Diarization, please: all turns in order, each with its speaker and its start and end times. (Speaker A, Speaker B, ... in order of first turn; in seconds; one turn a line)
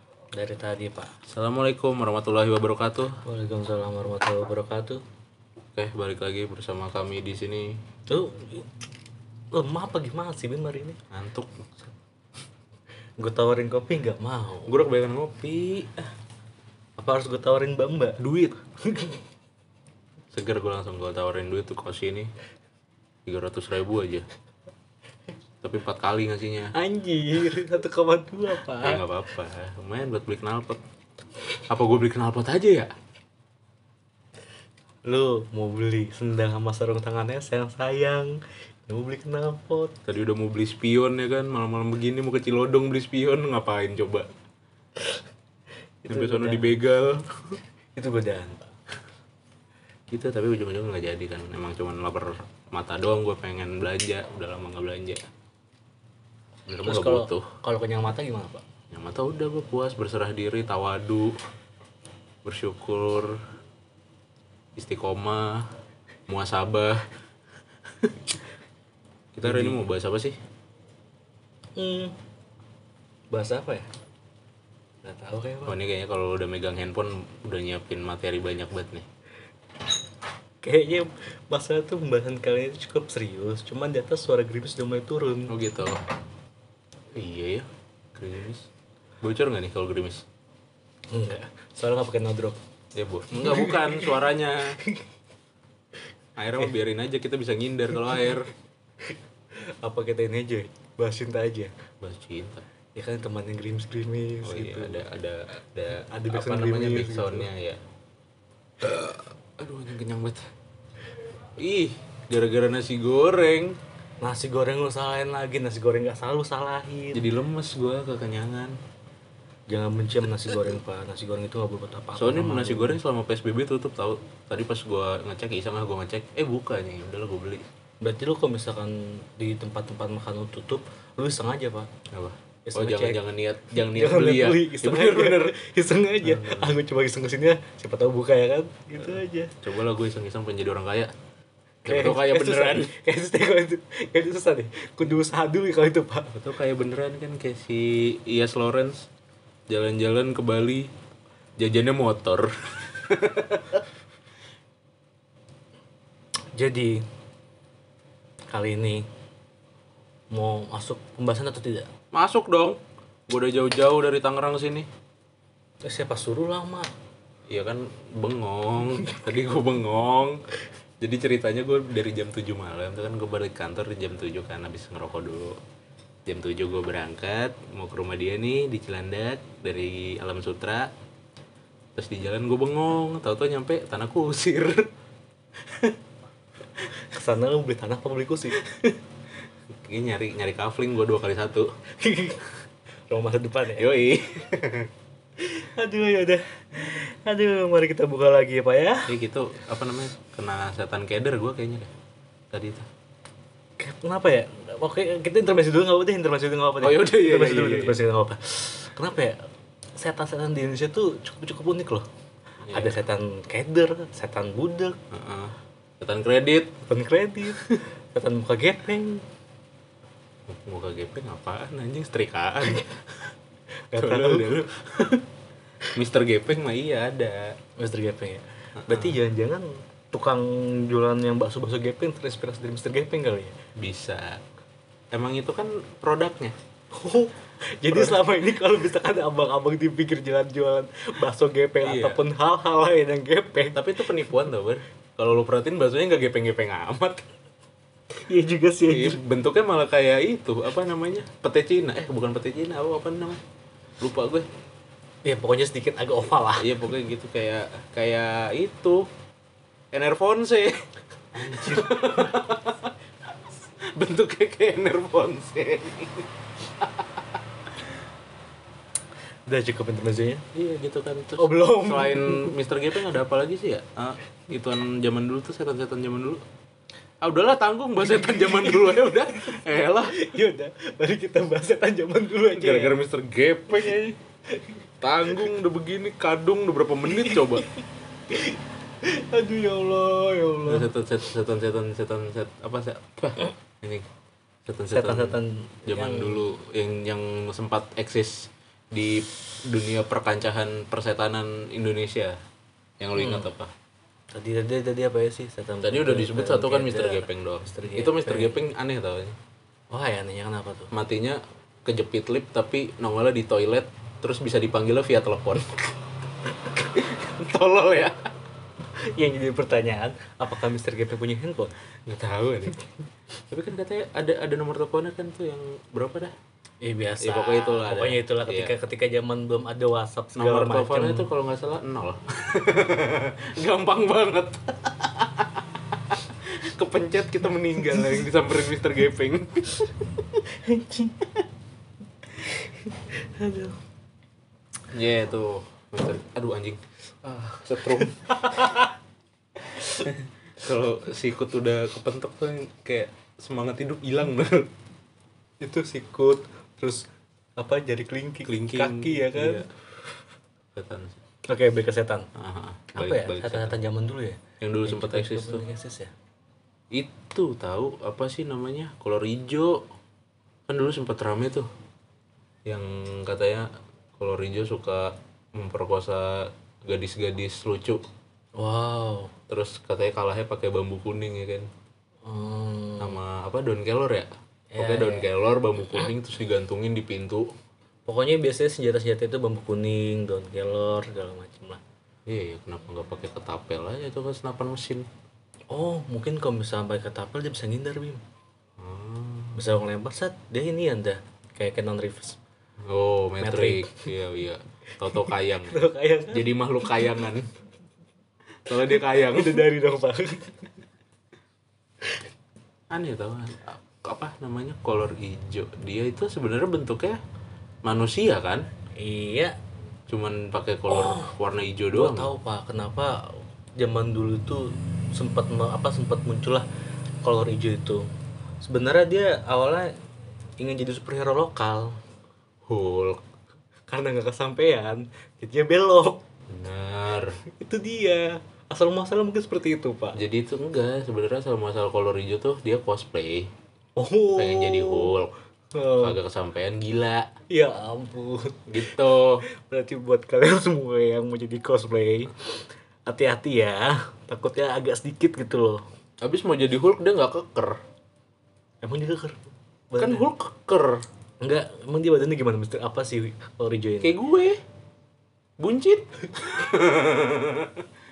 Speaker A: 0.3-1.1
Speaker B: 1.2-3.2
Speaker A: 3.2-5.0
Speaker B: 5.7-7.8
Speaker A: 8.1-8.7
Speaker A: 9.5-11.0
Speaker B: 11.1-11.9
Speaker A: 13.2-14.7
Speaker B: 14.7-16.1
Speaker A: 17.0-18.2
Speaker B: 18.2-18.6
Speaker A: 18.8-19.2
Speaker B: 20.3-22.3
Speaker B: 23.2-24.2
Speaker B: 25.6-26.7
Speaker A: 26.7-29.0
Speaker B: 28.8-30.8
Speaker B: 31.7-32.9
Speaker A: 35.0-39.9
Speaker B: 40.1-44.3
Speaker A: 46.0-46.8
Speaker B: 46.1-47.6
Speaker A: 48.0-48.7
Speaker B: 50.1-55.2
Speaker B: 56.6-57.5
Speaker A: 56.8-58.6
Speaker B: 58.9-61.4
Speaker B: 62.4-63.4
Speaker B: 64.8-65.7
Speaker B: 66.3-67.1
Speaker B: 69.3-70.4
Speaker A: 69.4-69.8
Speaker A: 71.8-72.1
Speaker A: 73.3-73.9
Speaker A: 75.0-75.8
Speaker B: 75.6-79.0
Speaker A: 80.6-85.5
Speaker B: 85.5-86.0
Speaker B: 87.1-88.7
Speaker B: 89.2-90.2
Speaker A: 91.1-92.6
Speaker B: 92.9-94.8
Speaker A: 93.3-94.2
Speaker B: 96.4-98.5
Speaker A: 99.0-101.7
Speaker B: 102.0-102.6
Speaker A: 103.0-105.0
Speaker B: 104.4-107.8
Speaker A: 106.0-107.5
Speaker B: 108.8-110.5
Speaker B: 111.6-113.8
Speaker A: 114.2-117.2
Speaker B: 117.1-118.8
Speaker A: 119.7-123.0
Speaker B: 122.2-127.6
Speaker A: 128.0-131.9
Speaker B: 132.1-135.6
Speaker A: 132.7-133.2
Speaker A: 133.8-139.6
Speaker B: 136.2-136.8
Speaker B: 139.6-141.1
Speaker B: 141.8-142.9
Speaker A: 141.8-146.4
Speaker B: 146.4-149.1
Speaker B: 149.7-150.9
Speaker B: 151.6-153.8
Speaker A: 156.6-157.0
Speaker A: 158.5-159.1
Speaker A: 160.3-161.9
Speaker B: 162.1-164.9
Speaker A: 165.8-166.9
Speaker B: 167.5-170.4
Speaker B: 171.0-175.6
Speaker B: 176.2-180.9
Speaker B: 181.9-184.9
Speaker A: 186.9-188.7
Speaker B: 189.7-191.7
Speaker A: 192.0-192.4
Speaker A: 193.1-193.9
Speaker B: 193.8-194.9
Speaker A: 195.4-199.1
Speaker B: 199.1-201.9
Speaker B: 202.5-202.9
Speaker A: 203.8-209.4
Speaker B: 206.8-208.0
Speaker A: 209.9-212.0
Speaker B: 212.6-213.0
Speaker A: 212.7-215.0
Speaker B: 215.1-216.7
Speaker A: 216.8-219.2
Speaker B: 220.5-223.3
Speaker A: 223.9-225.1
Speaker B: 224.0-225.2
Speaker B: 225.9-227.6
Speaker A: 227.8-233.5
Speaker B: 228.8-229.2
Speaker B: 233.8-234.4
Speaker B: 235.1-236.6
Speaker A: 236.9-243.8
Speaker B: 237.9-238.2
Speaker B: 241.8-242.2
Speaker B: 243.7-247.2
Speaker A: 248.2-249.2
Speaker B: 248.9-253.4
Speaker B: 254.0-254.5
Speaker A: 255.2-256.8
Speaker B: 256.5-259.1
Speaker B: 259.9-262.9
Speaker A: 261.3-262.3
Speaker B: 263.8-267.9
Speaker A: 269.5-270.4
Speaker B: 270.5-276.4
Speaker A: 271.4-272.5
Speaker B: 277.2-280.2
Speaker A: 278.2-282.9
Speaker B: 282.5-284.1
Speaker A: 283.8-284.8
Speaker B: 285.0-287.6
Speaker A: 287.1-290.9
Speaker B: 290.6-294.1
Speaker B: 294.6-302.4
Speaker A: 294.9-296.5
Speaker B: 303.0-303.7
Speaker A: 303.2-303.5
Speaker A: 304.3-308.6
Speaker B: 305.8-309.4
Speaker A: 309.9-310.9
Speaker B: 310.9-315.9
Speaker B: 316.7-318.3
Speaker A: 319.0-321.7
Speaker B: 322.1-322.8
Speaker B: 323.5-326.3
Speaker A: 326.8-331.3
Speaker B: 327.2-328.7
Speaker B: 330.3-340.0
Speaker A: 340.4-341.4
Speaker A: 342.4-343.8
Speaker B: 344.9-348.7
Speaker A: 347.9-348.9
Speaker B: 349.7-354.7
Speaker A: 355.6-357.1
Speaker A: 357.6-359.7
Speaker B: 358.4-359.7
Speaker B: 360.7-361.2
Speaker A: 361.4-362.3
Speaker B: 362.3-363.7
Speaker A: 362.9-366.1
Speaker B: 364.6-365.6
Speaker B: 366.9-369.8
Speaker B: 370.7-371.7
Speaker B: 372.6-378.0
Speaker A: 378.6-379.3
Speaker B: 379.5-381.7
Speaker A: 382.2-383.2
Speaker B: 383.0-387.5
Speaker A: 384.7-385.3
Speaker A: 388.1-391.8
Speaker B: 392.3-395.1
Speaker A: 395.7-398.2
Speaker B: 398.8-399.6
Speaker A: 399.5-402.4
Speaker B: 402.8-407.5
Speaker A: 403.4-404.1
Speaker A: 405.6-407.0
Speaker B: 408.6-409.7
Speaker A: 409.0-410.7
Speaker B: 412.9-417.2
Speaker B: 417.8-418.7
Speaker A: 419.0-419.5
Speaker B: 420.1-422.3
Speaker A: 420.9-421.3
Speaker A: 421.9-426.6
Speaker A: 427.2-428.1
Speaker A: 428.6-429.9
Speaker A: 430.6-432.0
Speaker B: 432.6-433.2
Speaker A: 433.9-436.2
Speaker B: 436.5-437.4
Speaker A: 437.5-440.2
Speaker B: 440.1-443.5
Speaker A: 444.0-445.1
Speaker B: 444.4-445.3
Speaker A: 445.7-446.2
Speaker B: 446.0-447.3
Speaker A: 447.5-448.7
Speaker B: 448.7-449.4
Speaker A: 449.4-455.8
Speaker B: 456.2-457.8
Speaker A: 458.8-460.3
Speaker B: 460.0-461.0
Speaker A: 461.4-464.1
Speaker B: 464.0-464.6
Speaker B: 465.6-467.9